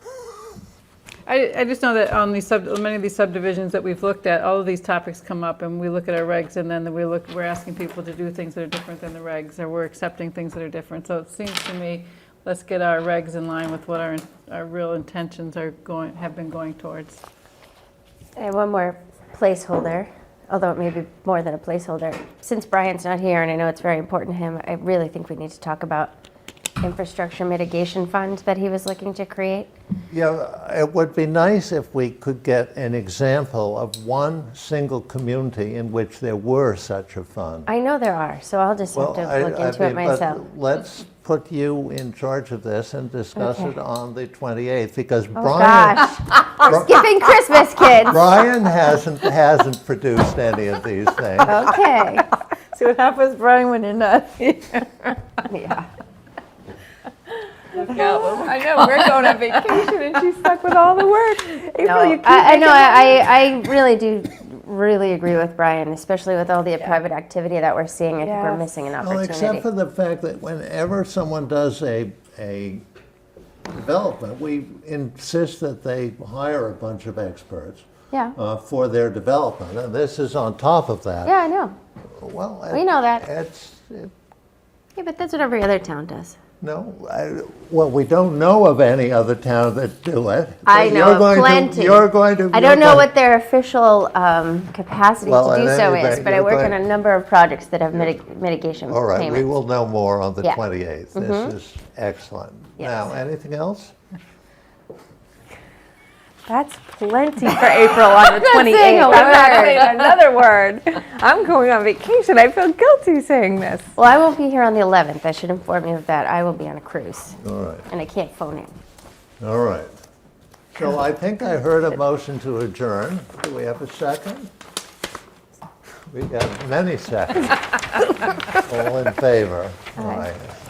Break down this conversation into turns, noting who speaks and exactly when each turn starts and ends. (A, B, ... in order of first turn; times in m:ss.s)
0:01.2-0:17.2 A
0:18.4-0:26.1 B
0:26.8-0:29.7 B
0:30.1-0:37.7 C
0:37.7-0:40.4 B
0:38.9-0:47.1 C
0:43.4-0:43.7 B
0:45.4-0:48.2 B
0:48.0-0:51.6 C
0:51.4-0:52.3 B
0:52.7-0:55.2 A
0:55.5-0:55.9 B
0:57.7-1:03.3 D
0:57.7-0:59.9 A
1:01.8-1:09.7 B
1:08.2-1:08.6 D
1:09.0-1:12.8 C
1:13.7-1:21.3 C
1:21.2-1:21.8 B
1:22.2-1:24.1 C
1:22.7-1:23.2 B
1:25.0-1:26.4 B
1:26.6-1:33.1 C
1:30.7-1:39.4 B
1:35.2-1:36.8 C
1:38.9-1:43.9 C
1:41.1-1:41.5 B
1:46.5-1:53.9 D
1:47.6-1:50.1 B
1:53.9-1:57.4 B
1:57.4-1:57.9 C
1:57.9-1:58.7 B
1:59.4-1:59.9 C
2:00.7-2:04.5 C
2:06.1-2:10.4 C
2:10.0-2:10.3 B